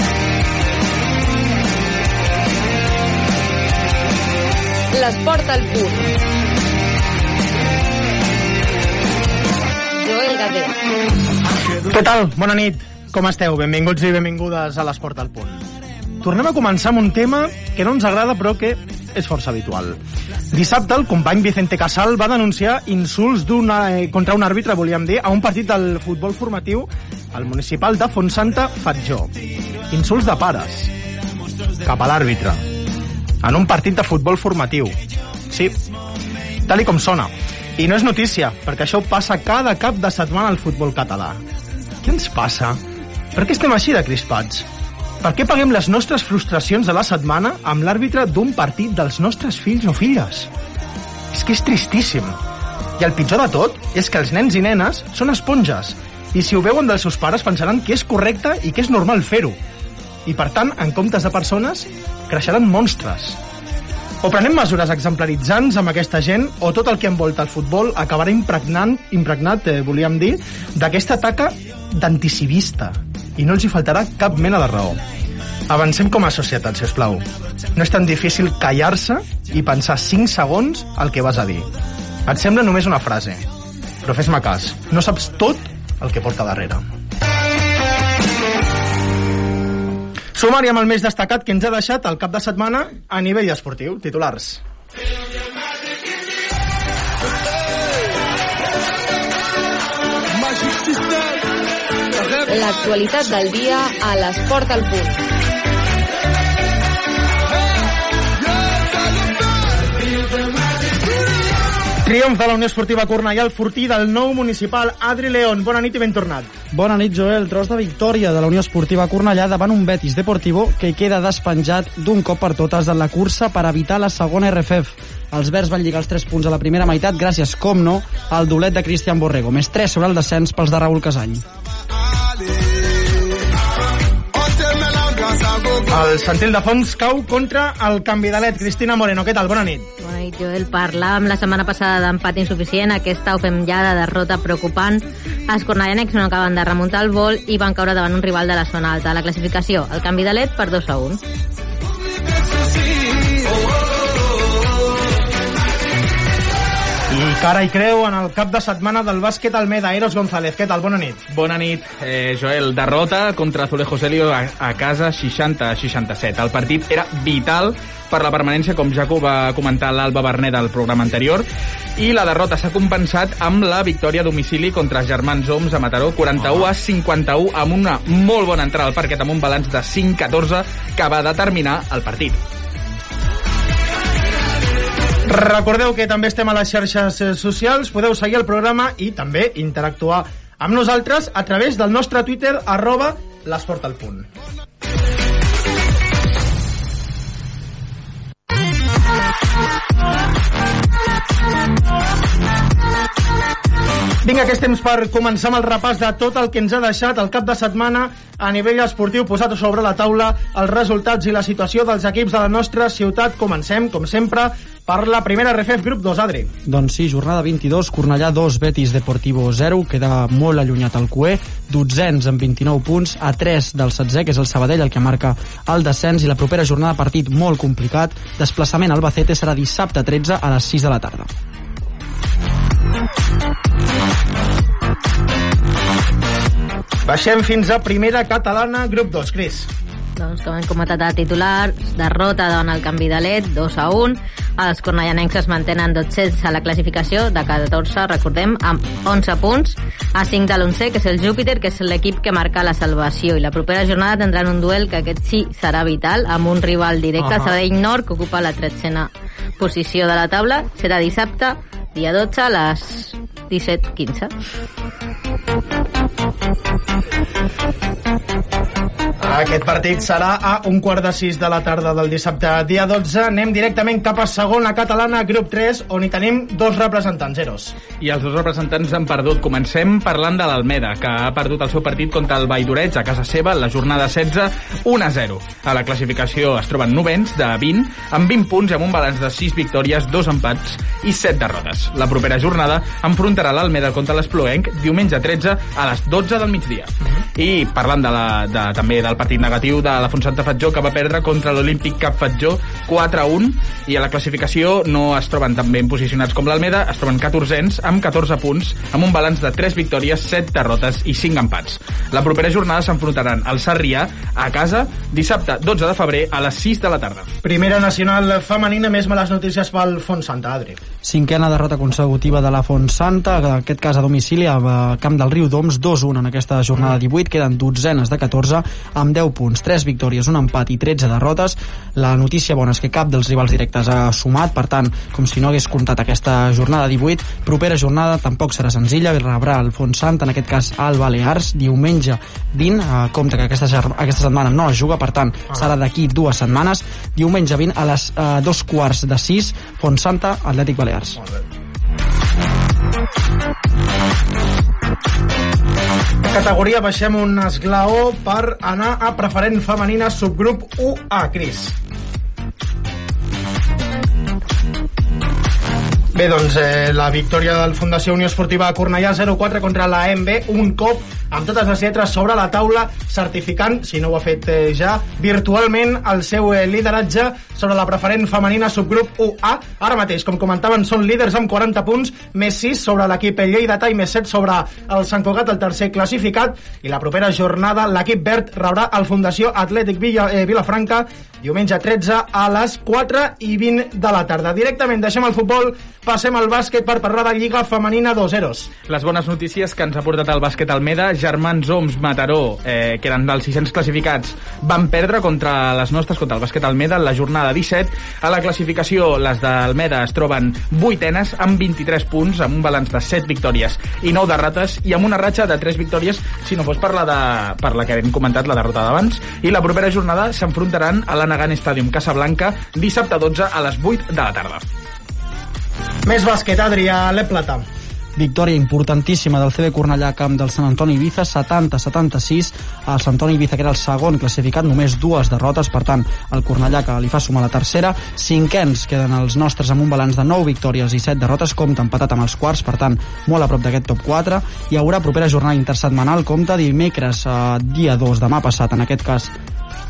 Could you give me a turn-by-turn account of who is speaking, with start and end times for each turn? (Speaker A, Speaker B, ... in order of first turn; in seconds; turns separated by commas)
Speaker A: 4.9-6.1, Speaker A: 10.0-10.7, Speaker B: 11.8-15.6, Speaker B: 16.2-20.0, Speaker B: 20.5-29.3, Speaker B: 29.9-30.9, Speaker B: 31.8-32.6, Speaker B: 33.4-34.9, Speaker B: 35.5-35.8, Speaker B: 36.6-41.4, Speaker B: 42.0-42.8, Speaker B: 43.3-44.7, Speaker B: 45.2-50.5, Speaker B: 51.3-52.4, Speaker B: 53.0-59.6, Speaker B: 60.2-63.4, Speaker B: 64.2-75.0, Speaker B: 75.7-81.7, Speaker B: 82.2-83.4, Speaker B: 84.0-86.8, Speaker B: 90.3-94.6, Speaker A: 102.4-105.2, Speaker B: 112.0-116.5, Speaker C: 116.7-131.4, Speaker B: 135.9-139.9, Speaker D: 140.0-151.2, Speaker B: 157.1-161.2, Speaker E: 161.3-171.4, Speaker E: 172.0-182.4, Speaker B: 185.2-194.3, Speaker B: 204.2-216.5, Speaker C: 216.6-231.3, Speaker B: 237.0-239.7, Speaker D: 240.2-264.3, Speaker B: 257.2-257.5, Speaker B: 269.2-277.8, Speaker E: 278.0-317.3, Speaker B: 317.4-320.8, Speaker C: 321.0-351.2, Speaker B: 356.2-361.8, Speaker B: 366.1-398.7, Speaker E: 398.9-424.6, Speaker B: 426.1-427.6, Speaker C: 428.1-449.3